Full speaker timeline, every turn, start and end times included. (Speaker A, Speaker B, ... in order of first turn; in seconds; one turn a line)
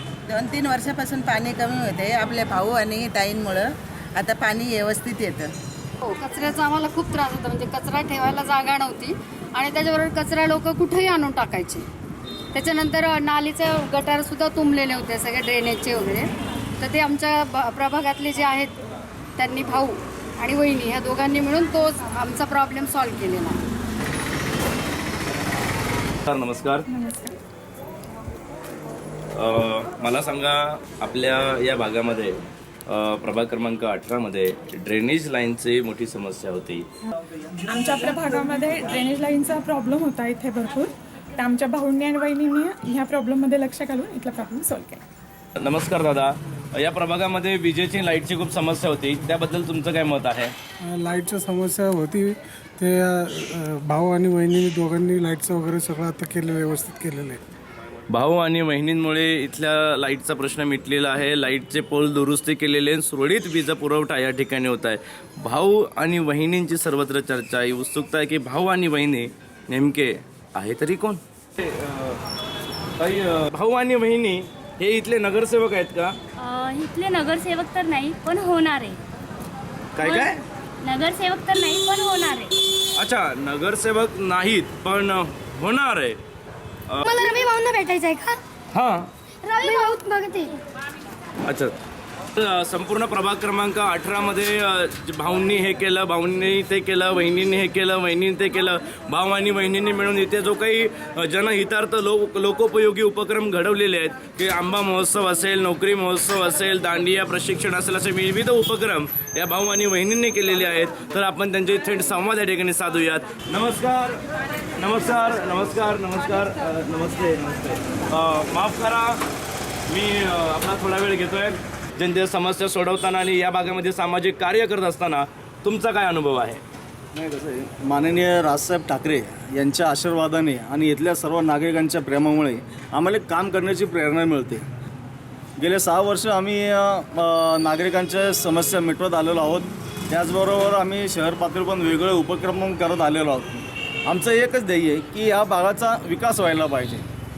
Speaker A: 0.3-5.5
Speaker B: 6.0-11.8
Speaker B: 12.5-18.8
Speaker B: 19.4-23.6
Speaker C: 26.2-26.9
Speaker D: 26.9-27.4
Speaker C: 29.3-36.9
Speaker D: 37.7-45.0
Speaker C: 45.6-50.5
Speaker E: 50.8-57.4
Speaker C: 58.1-72.2
Speaker C: 73.0-76.2
Speaker F: 76.4-79.0
Speaker C: 80.0-80.4
Speaker F: 80.0-80.3
Speaker F: 80.8-82.5
Speaker C: 82.9-86.2
Speaker G: 87.0-88.4
Speaker C: 88.7-89.1
Speaker G: 89.4-90.5
Speaker C: 91.4-91.7
Speaker C: 92.3-114.2
Speaker C: 114.8-119.2
Speaker C: 119.9-126.6
Speaker H: 127.1-134.6
Speaker H: 135.6-147.0